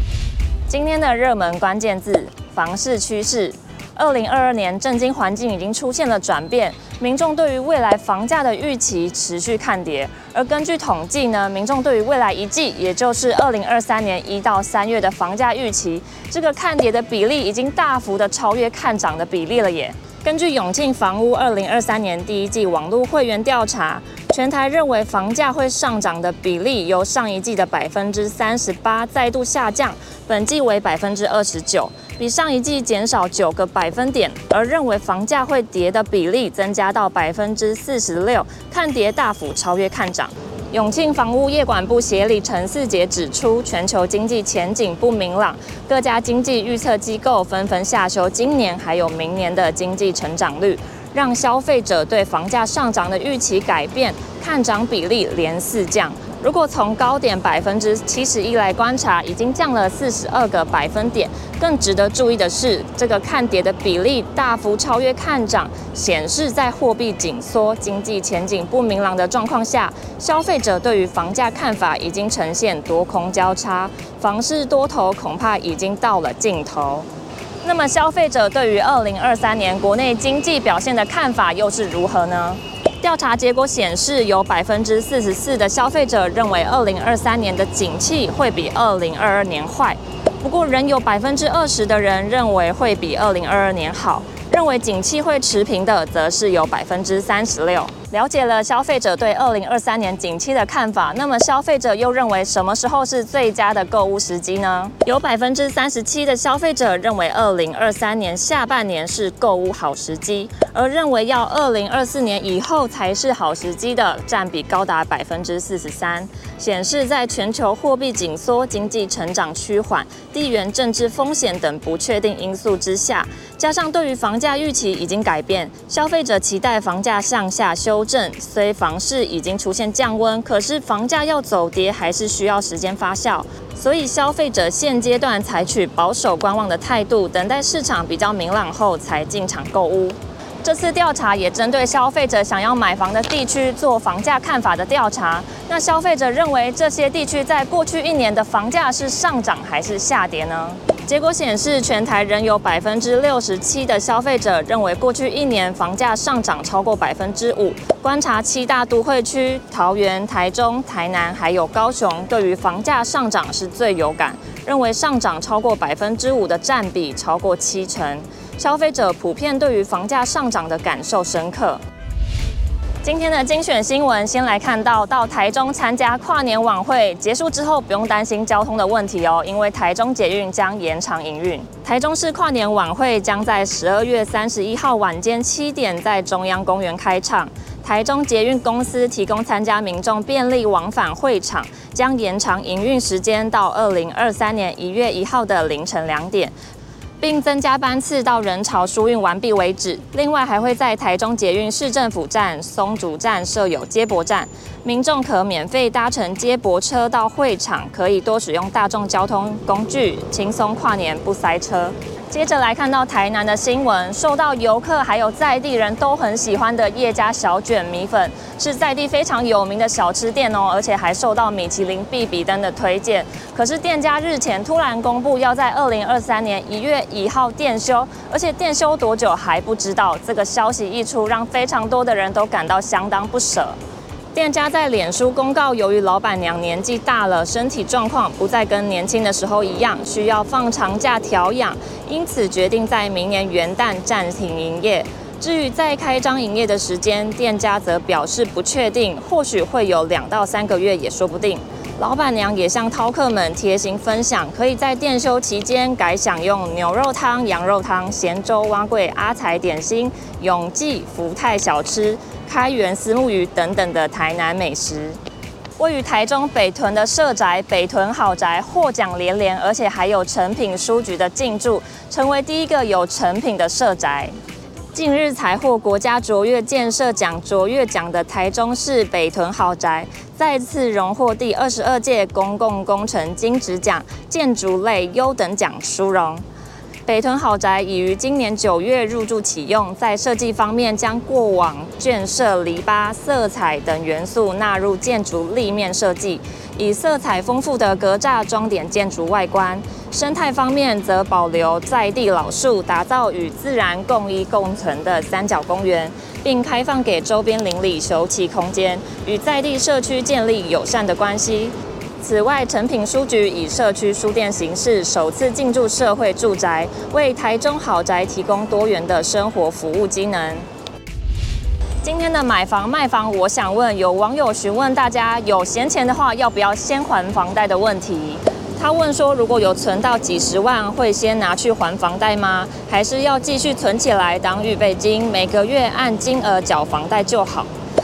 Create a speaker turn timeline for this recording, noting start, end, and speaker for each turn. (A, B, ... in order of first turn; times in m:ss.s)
0:00.7-1:17.1 A
1:17.6-2:51.8 A
2:53.0-3:16.5 A
3:17.2-3:53.8 A
3:54.3-4:25.2 A
4:25.8-4:34.3 A
4:34.9-4:46.4 A
4:47.0-5:20.7 A
5:22.0-5:37.7 A